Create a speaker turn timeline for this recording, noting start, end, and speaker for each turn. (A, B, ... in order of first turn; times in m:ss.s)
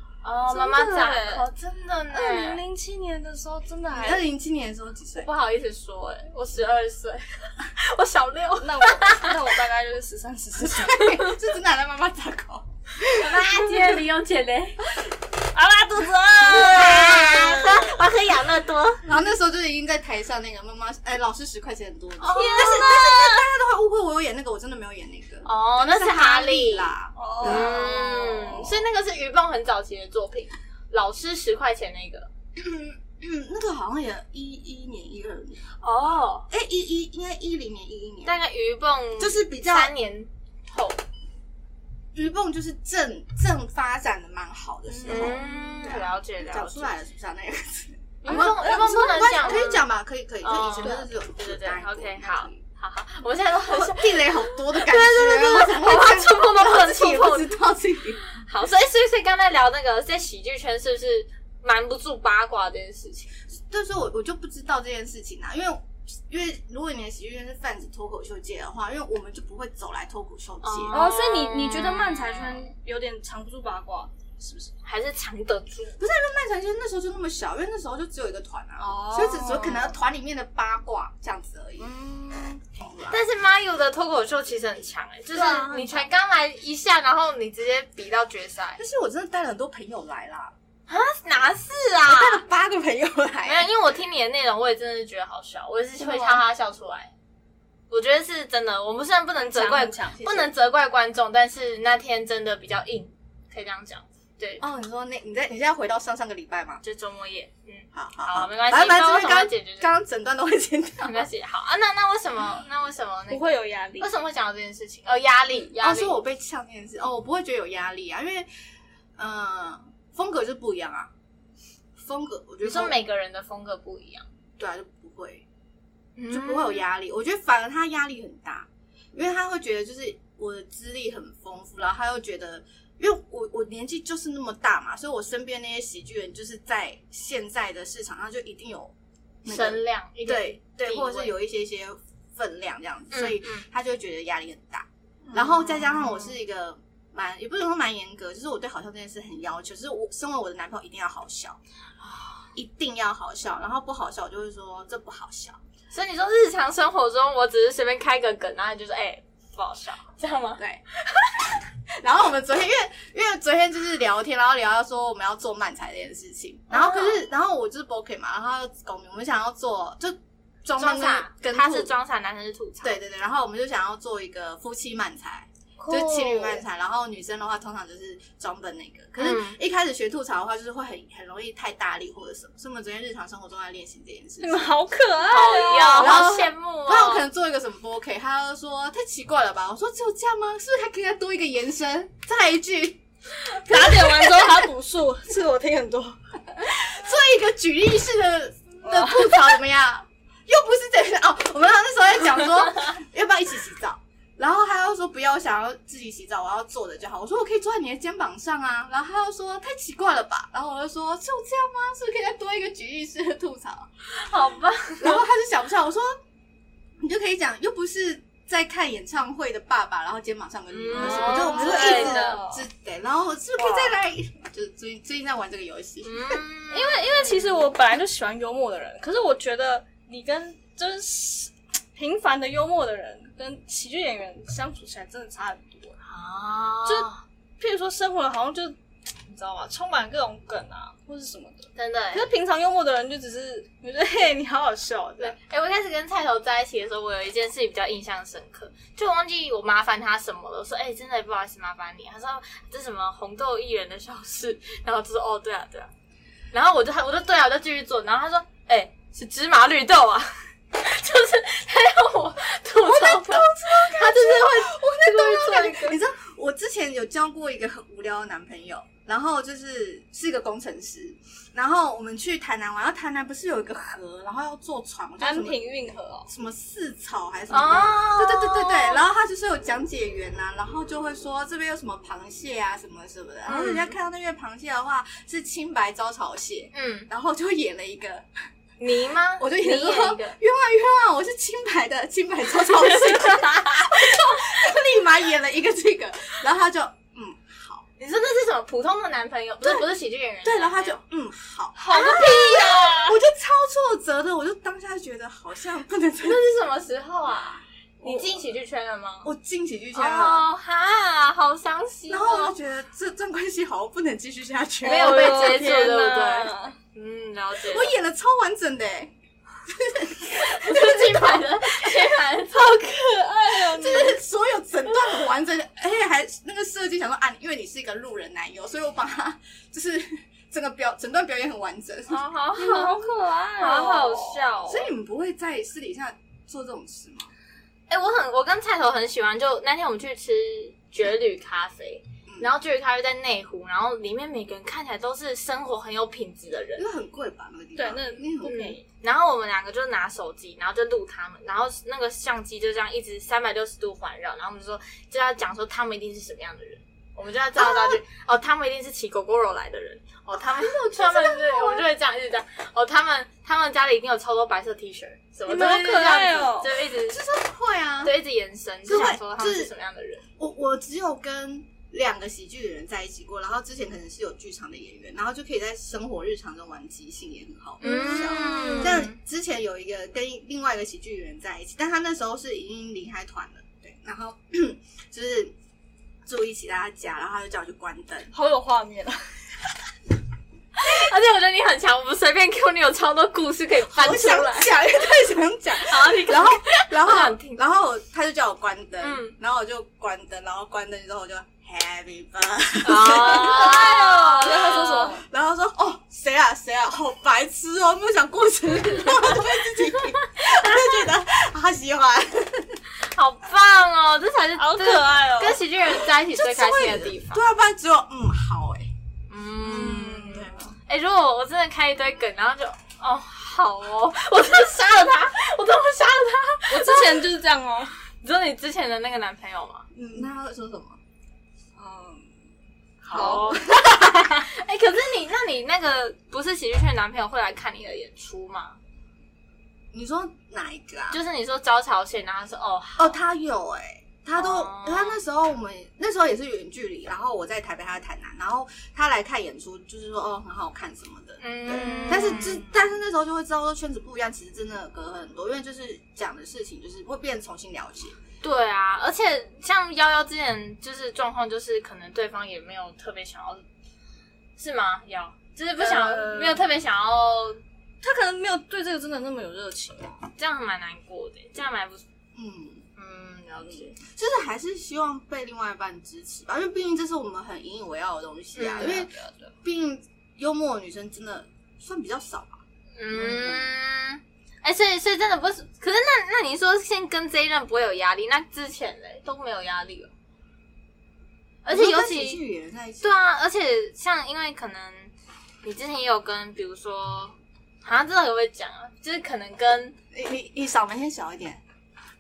0:00.2-0:02.6 A
0:00.5-0:01.4 B
0:02.1-0:04.3 B
0:03.9-0:05.3 C
0:05.2-0:09.4 A
0:08.6-0:11.1 B
0:10.6-0:12.7 C
0:11.1-0:11.3 A
0:13.1-0:14.9 A
0:15.5-0:18.0 B
0:16.4-0:19.0 A
0:16.6-0:17.6 C
0:19.0-0:28.3 C
0:22.2-0:22.9 A
0:22.3-0:23.5 B
0:25.4-0:32.3 A
0:27.2-0:28.6 B
0:32.6-0:35.8 C
0:35.8-0:36.5 A
0:36.5-0:38.4 C
0:38.2-0:41.0 A
0:39.2-0:39.9 C
0:42.1-0:52.6 C
0:44.9-0:45.6 B
0:45.0-0:46.9 A
0:48.2-0:49.8 A
0:48.3-0:49.5 B
0:50.4-0:57.6 A
0:53.5-0:58.2 C
0:58.3-1:03.3 A
1:03.7-1:11.1 C
1:10.6-1:12.7 A
1:10.9-1:14.7 B
1:14.8-1:16.0 A
1:16.0-1:21.9 C
1:18.8-1:20.0 B
1:21.8-1:22.6 B
1:22.6-1:23.2 C
1:23.1-1:28.8 A
1:25.3-1:26.1 C
1:28.8-1:30.5 C
1:30.9-1:32.4 A
1:32.0-1:33.7 C
1:33.4-1:37.1 A
1:36.0-1:36.3 B
1:37.9-1:44.6 A
1:39.4-1:40.3 B
1:40.2-1:40.5 C
1:44.6-1:46.8 C
1:46.8-1:49.9 A
1:47.9-1:51.2 C
1:51.0-1:56.2 A
1:53.3-1:54.1 B
1:55.8-1:58.5 C
1:59.2-2:01.1 C
2:02.0-2:03.0 C
2:02.6-2:04.3 A
2:04.6-2:05.5 C
2:06.2-2:06.9 A
2:06.3-2:31.6 C
2:19.4-2:21.3 A
2:23.1-2:23.7 A
2:25.3-2:26.4 A
2:32.0-2:32.5 A
2:32.5-2:35.6 C
2:35.9-2:40.6 A
2:42.0-2:51.9 C
2:46.7-2:47.2 A
2:50.8-2:53.0 A
2:52.8-3:04.7 C
2:55.8-2:56.6 B
2:59.2-2:59.6 A
3:04.4-3:06.2 B
3:05.3-3:07.2 A
3:05.9-3:13.0 C
3:13.6-3:14.7 C
3:13.7-3:16.2 B
3:16.6-3:33.9 C
3:18.8-3:19.3 B
3:34.1-3:35.2 A
3:35.0-3:36.2 C
3:37.0-3:46.4 C
3:40.7-3:42.4 A
3:40.9-3:42.7 B
3:43.6-3:43.9 B
3:46.0-3:47.7 A
3:46.7-3:56.0 B
3:56.0-3:57.2 A
3:56.9-4:05.4 B
4:01.8-4:02.2 A
4:05.2-4:15.9 A
4:16.5-4:25.8 A
4:22.8-4:35.6 C
4:24.6-4:26.0 B
4:35.2-4:36.3 B
4:36.3-4:48.3 C
4:37.5-4:39.0 A
4:43.5-4:44.0 A
4:46.7-4:47.1 A
4:48.8-4:50.4 A
4:49.4-4:57.9 C
4:52.7-4:54.6 A
4:58.0-5:01.0 A
5:00.4-5:06.4 C
5:01.8-5:03.1 B
5:01.9-5:03.2 A
5:06.2-5:09.3 A
5:08.0-5:08.4 C
5:09.2-5:10.5 C
5:09.9-5:12.6 A
5:12.1-5:15.6 C
5:14.8-5:16.8 B
5:14.8-5:17.9 A
5:17.6-5:19.1 C
5:19.6-5:22.2 C
5:20.4-5:22.9 A
5:22.5-5:24.2 B
5:23.7-5:32.2 C
5:32.1-5:34.8 A
5:32.6-5:34.9 B
5:34.7-5:37.3 C
5:37.9-5:46.9 A
5:46.8-5:48.7 C
5:47.8-5:48.8 B
5:48.4-6:07.2 A
5:57.6-5:58.0 C
6:00.8-6:01.8 C
6:05.5-6:06.7 B
6:07.0-6:08.1 C
6:08.0-6:10.3 A
6:08.8-6:09.7 C
6:10.4-6:25.6 C
6:17.8-6:19.2 A
6:17.8-6:19.0 B
6:26.2-6:28.3 C
6:28.3-6:29.4 B
6:30.8-6:34.8 A
6:33.9-6:52.8 C
6:35.8-6:37.6 A
6:39.0-6:39.4 A
6:42.8-6:45.1 A
6:43.3-6:45.2 B
6:53.0-6:57.4 A
6:54.6-6:55.6 B
6:56.0-6:58.9 C
6:59.3-7:07.3 A
6:59.6-7:00.6 B
7:00.3-7:00.7 C
7:06.7-7:07.9 B
7:08.2-7:09.9 A
7:10.0-7:10.3 B
7:10.1-7:11.0 C
7:11.8-7:12.4 B
7:13.0-7:14.1 C
7:13.1-7:18.8 A
7:13.1-7:13.6 B
7:19.9-7:21.2 C
7:21.1-7:23.2 A
7:23.0-7:38.2 C
7:24.4-7:25.2 A
7:31.4-7:32.9 A
7:31.7-7:32.5 B
7:38.4-7:43.6 A
7:44.6-7:47.6 A
7:45.8-7:46.7 B
7:48.0-7:50.3 B
7:50.4-7:52.0 A
7:52.4-7:52.9 C
7:53.0-7:54.0 A
7:54.0-7:59.1 C
7:58.6-7:59.0 A
7:58.8-7:59.5 B
7:59.6-8:02.6 C
8:03.0-8:10.1 A
8:03.1-8:03.7 C
8:11.6-8:12.4 A
8:11.7-8:13.2 C
8:13.0-8:20.0 A
8:20.1-8:21.6 C